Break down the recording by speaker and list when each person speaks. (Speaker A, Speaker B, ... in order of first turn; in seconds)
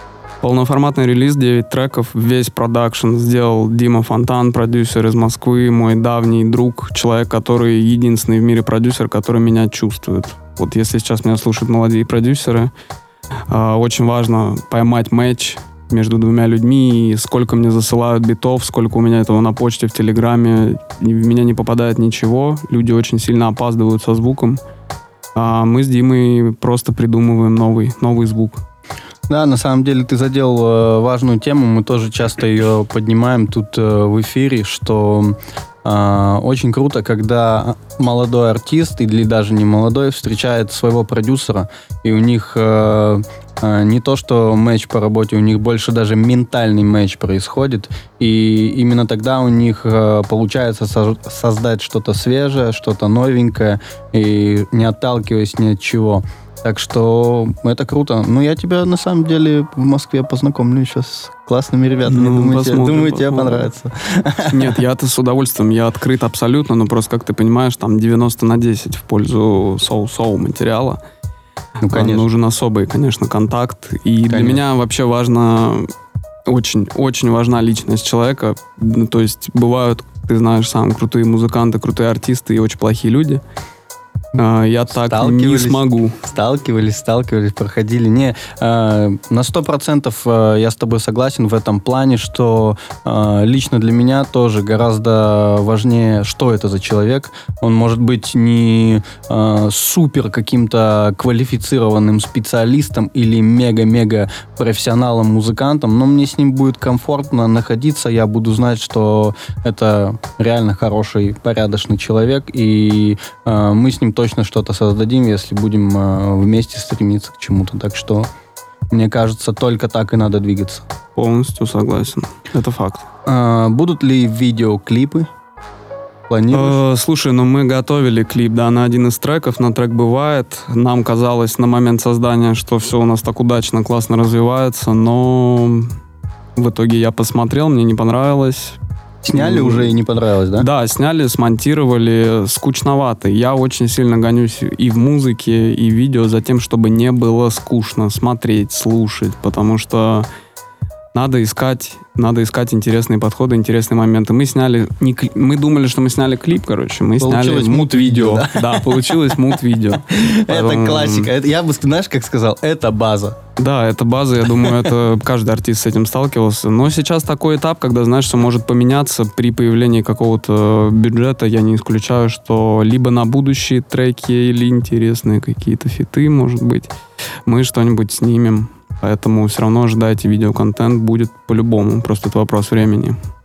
Speaker A: 0.4-12.7, 13.5-24.6, 25.4-28.6, 62.1-63.7, 64.5-71.0, 71.9-75.9, 76.5-83.4, 84.4-86.2, 121.2-123.1, 126.5-135.9, 136.6-138.8, 139.3-139.9, 140.6-150.3, 151.1-161.3, 163.6-176.9, 177.5-183.2
Speaker B: 29.3-64.8, 71.8-72.3, 74.3-74.6, 84.9-118.3, 118.9-120.9, 123.3-125.3, 126.3-126.8, 139.2-140.7, 157.2-163.4, 164.6-164.9